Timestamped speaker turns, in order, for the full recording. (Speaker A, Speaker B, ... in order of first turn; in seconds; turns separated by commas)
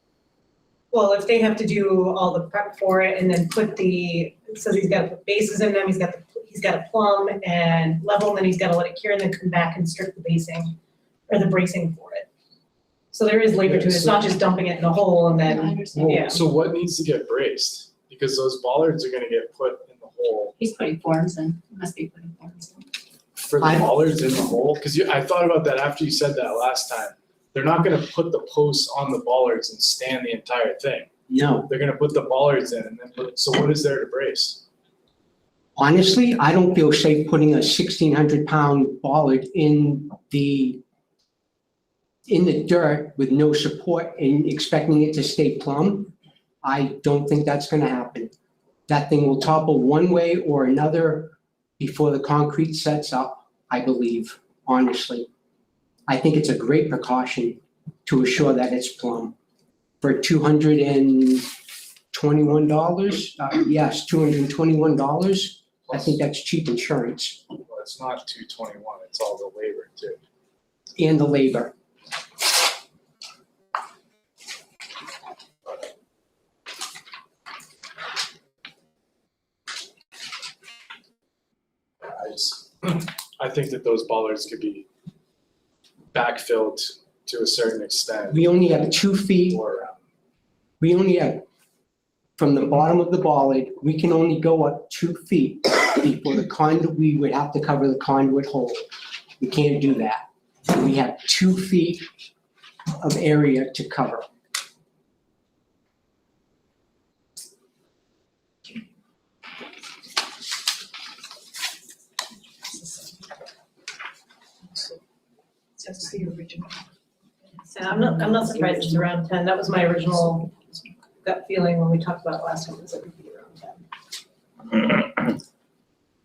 Speaker A: 0.9-10.8, Speaker A: 11.3-12.3, Speaker A: 13.1-16.4, Speaker B: 13.6-14.4, Speaker C: 15.4-16.4, Speaker B: 16.0-20.6, Speaker C: 20.6-22.9, Speaker B: 23.3-31.1, Speaker D: 23.6-24.0, Speaker D: 31.3-31.7, Speaker B: 31.6-34.6, Speaker D: 35.8-40.8, Speaker D: 42.3-48.3, Speaker D: 48.9-55.3, Speaker D: 56.1-59.3, Speaker D: 60.0-61.5, Speaker D: 62.1-67.4, Speaker B: 65.9-66.2, Speaker B: 67.7-70.2, Speaker D: 71.0-71.7, Speaker B: 82.0-84.9, Speaker B: 86.1-88.8, Speaker D: 88.3-89.6, Speaker B: 89.5-90.0, Speaker D: 90.8-91.4, Speaker D: 92.4-98.8, Speaker D: 99.4-102.0, Speaker D: 103.0-104.2, Speaker C: 115.8-116.7, Speaker A: 117.7-120.5, Speaker C: 117.8-118.9, Speaker A: 121.2-123.8